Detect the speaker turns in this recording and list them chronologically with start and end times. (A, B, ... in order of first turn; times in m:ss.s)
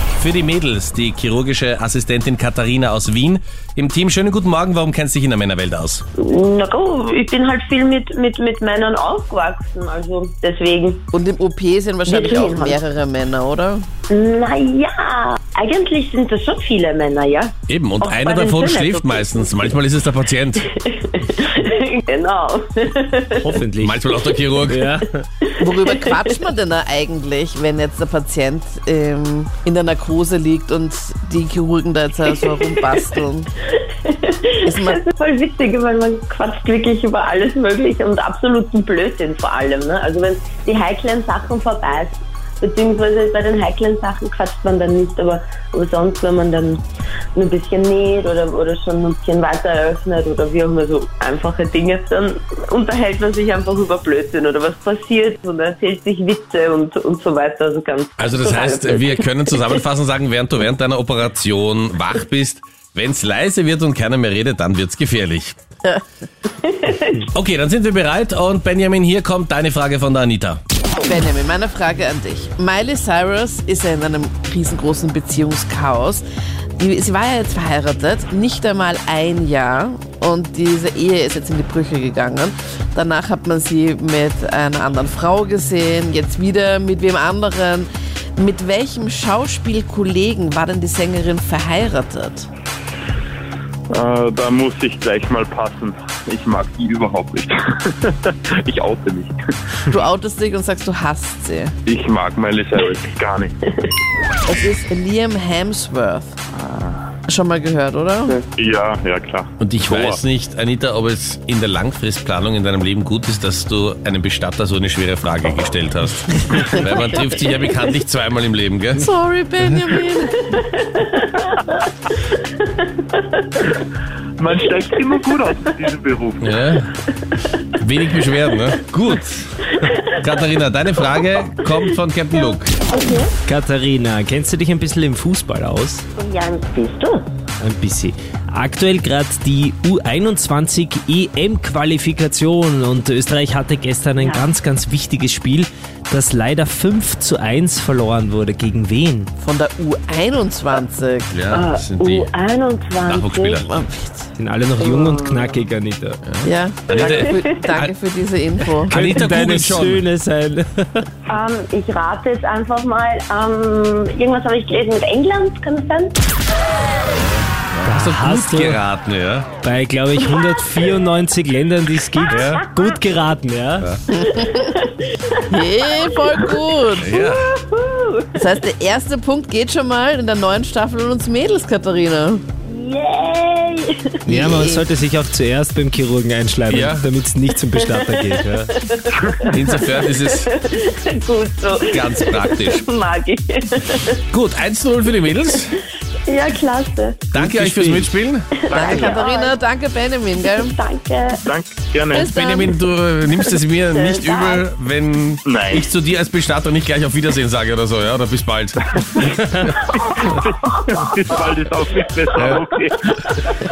0:00.2-0:06.0 A
0:06.2-0:11.0 B
0:11.1-0:13.8 C
0:12.0-0:12.8 B
0:14.1-0:19.7 B
0:17.7-0:20.6 A
0:20.7-0:23.6 B
0:23.4-0:24.0 D
0:23.8-0:24.9 A
0:24.7-0:25.1 D
0:25.4-0:26.1 B
0:25.6-0:33.5 C
0:32.3-0:32.8 B
0:33.8-0:46.8 B
0:34.6-0:35.0 C
0:47.3-0:59.3 B
0:58.2-1:05.6 A
1:06.6-1:07.2 B
1:07.3-1:10.6 A
1:11.0-1:16.2 C
1:16.8-1:32.5 C
1:33.9-1:39.4 E
1:39.9-1:41.7 C
1:41.9-1:43.5 E
1:44.4-1:46.4 C
1:47.3-1:48.4 C
1:48.5-1:50.2 E
1:49.6-1:59.0 A
1:59.0-2:00.6 C
2:00.4-2:03.8 B
2:04.4-2:06.5 E
2:06.4-2:06.9 A
2:07.8-2:09.6 A
2:09.7-2:10.3 B
2:10.2-2:12.8 A
2:12.9-2:13.3 B
2:13.4-2:16.0 D
2:16.2-2:17.2 B
2:17.6-2:29.3 D
2:24.2-2:24.5 B
2:29.4-2:31.3 C
2:31.3-2:32.3 A
2:31.5-2:33.6 B
2:33.1-2:33.7 A
2:33.7-2:34.3 C
2:34.4-2:36.2 D
2:34.8-2:35.6 B
2:36.2-2:37.9 A
2:36.4-2:39.0 C
2:36.9-2:37.6 B
2:38.8-2:41.1 D
2:38.9-2:40.0 A
2:41.3-2:46.3 B
2:47.1-2:49.5 A
2:47.8-2:48.8 D
2:49.6-2:53.9 D
2:52.1-2:53.0 B
2:52.3-2:52.6 A
2:54.1-2:54.7 C
2:54.2-2:58.4 B
2:55.5-2:57.0 C
2:57.0-2:57.5 A
2:58.4-3:02.4 C
3:02.6-3:04.2 B
3:04.3-3:04.8 C
3:04.3-3:08.7 D
3:06.7-3:07.1 A
3:07.7-3:14.2 B
3:09.5-3:10.5 A
3:11.9-3:12.9 A
3:14.3-3:15.8 A
3:16.3-3:17.3 B
3:17.3-3:18.5 A
3:18.6-3:19.5 B
3:18.7-3:19.2 E
3:18.7-3:20.8 C
3:20.4-3:21.4 B
3:21.4-3:22.3 E
3:22.1-3:22.8 C
3:22.2-3:29.6 A
3:23.5-3:24.6 B
3:25.4-3:25.9 E
3:30.0-3:33.3 E
3:32.4-3:32.6 A